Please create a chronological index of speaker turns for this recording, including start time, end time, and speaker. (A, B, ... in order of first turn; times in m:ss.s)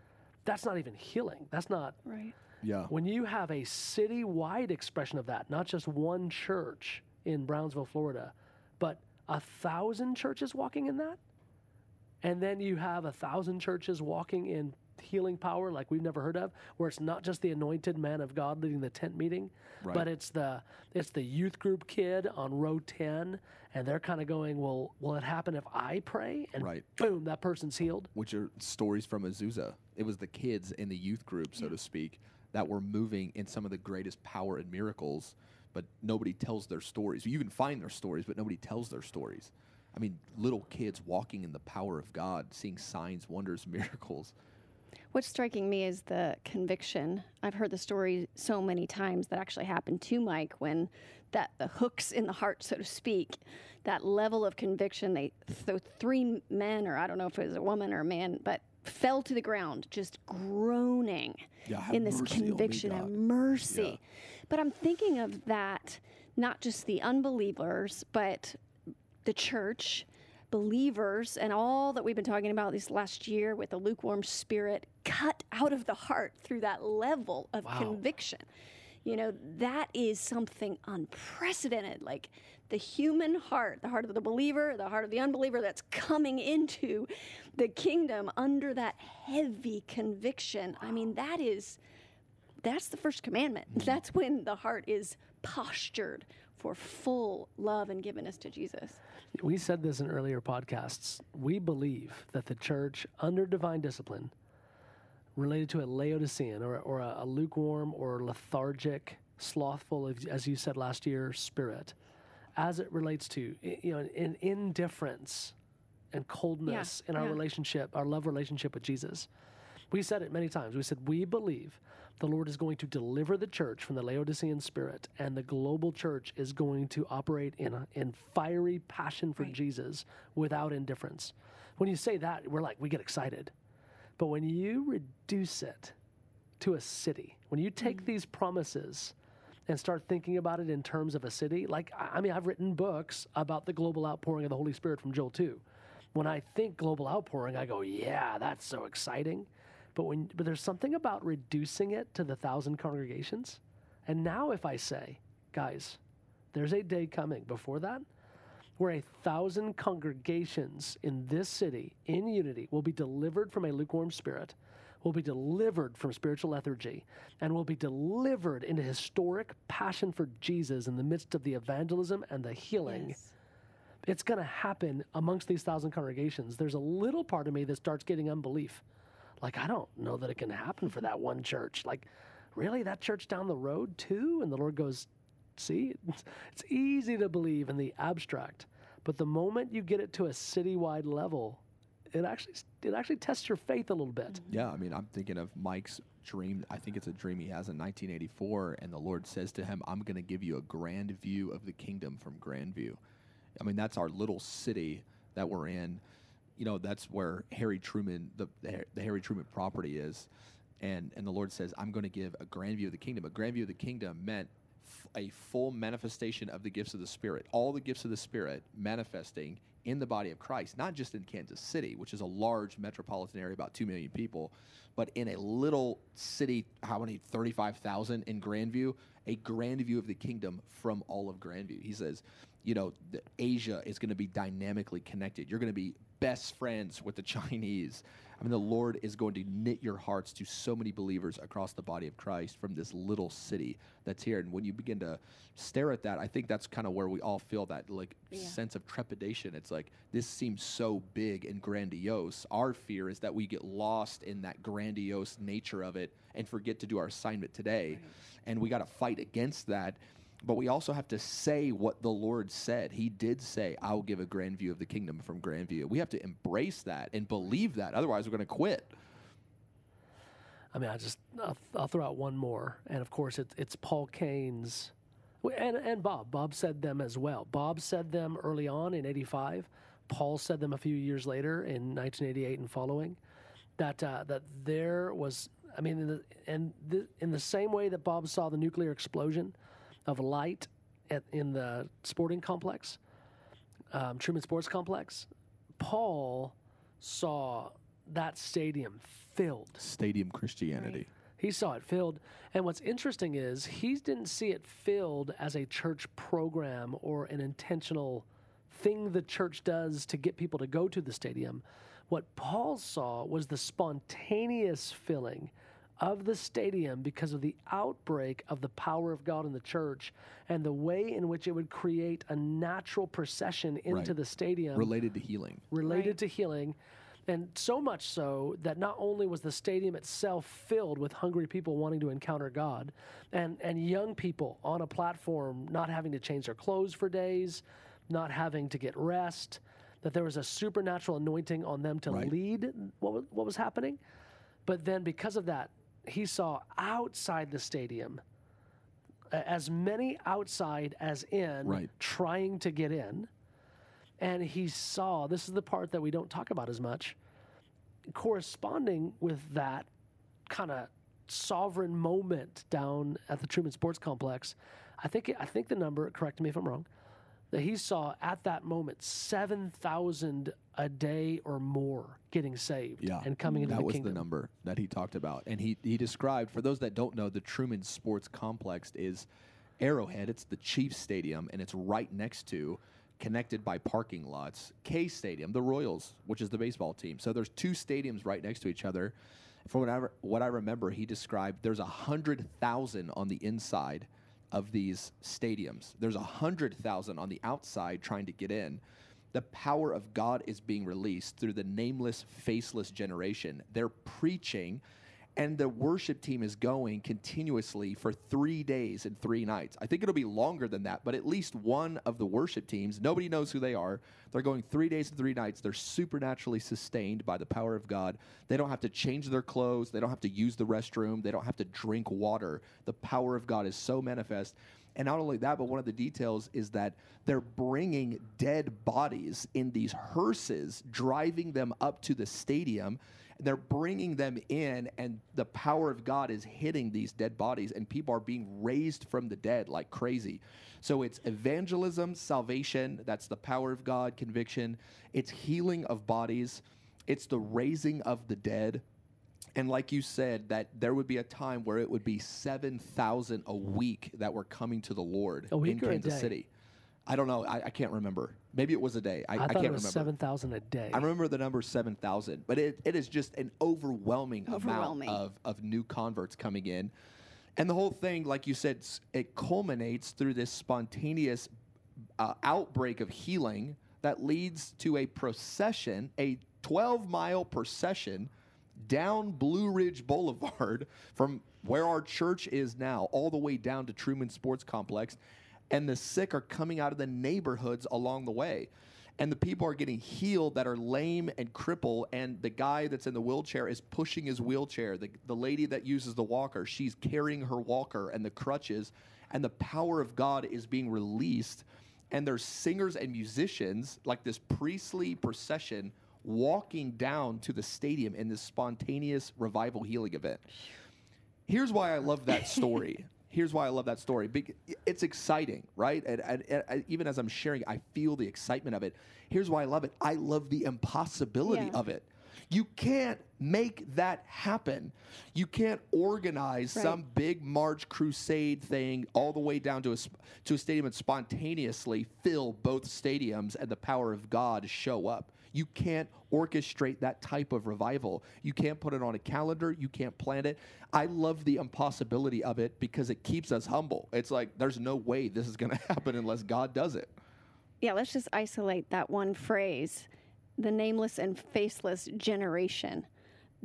0:00.4-0:02.0 A
0:02.0-0:02.3 B
0:02.6-0:02.9 C
0:02.9-0:11.2 A
0:12.2-0:28.1 A
0:26.6-0:26.8 C
0:28.1-0:44.3 C
0:45.1-1:08.6 B
1:01.6-1:03.1 C
1:03.7-1:04.0 C
1:09.2-1:18.4 B
1:17.6-1:18.0 A
1:19.0-1:31.8 B
1:32.6-1:39.0 B
1:39.3-1:44.3 A
1:45.4-1:51.9 A
1:52.6-1:55.5 A
1:56.1-1:59.3 A
1:56.7-1:57.4 B
1:59.9-2:13.5 A
2:14.2-2:16.0 A
2:16.6-2:19.1 A
2:19.7-2:25.6 A
2:26.1-2:36.0 A
2:36.5-2:38.0 A
2:38.8-2:53.2 A
2:52.8-2:53.3 B
2:54.0-2:58.8 A
2:59.4-3:11.6 A
3:12.1-3:14.4 A
3:14.5-3:23.0 C
3:23.6-3:26.0 C
3:26.6-3:30.3 C
3:30.8-4:28.9 C
4:30.7-4:43.2 A
4:43.8-4:49.5 A
4:50.1-4:53.0 A
4:53.9-4:55.3 A
4:55.8-4:59.8 A
4:59.8-5:01.1 C
5:01.4-5:24.9 A
5:24.7-5:25.6 C
5:25.7-5:44.0 A
5:25.8-5:26.2 B
5:42.1-5:42.3 C
5:44.6-5:48.2 A
5:49.3-5:53.3 A
5:54.2-5:57.2 A
5:58.1-5:59.9 A
6:00.5-6:06.9 A
6:07.5-6:14.2 A
6:13.0-6:19.3 C
6:13.4-6:13.8 B
6:19.8-6:38.8 C
6:39.3-6:44.8 C
6:45.4-7:28.8 C
7:29.5-7:36.5 C
7:35.5-7:36.3 A
7:37.1-7:40.1 C
7:39.4-7:41.1 A
7:40.9-7:46.9 C
7:44.5-7:45.2 B
7:47.6-7:51.5 C
7:52.2-8:05.2 C
8:05.7-8:30.4 C
8:31.5-9:07.1 C
8:41.4-8:41.8 B
9:07.8-9:13.1 B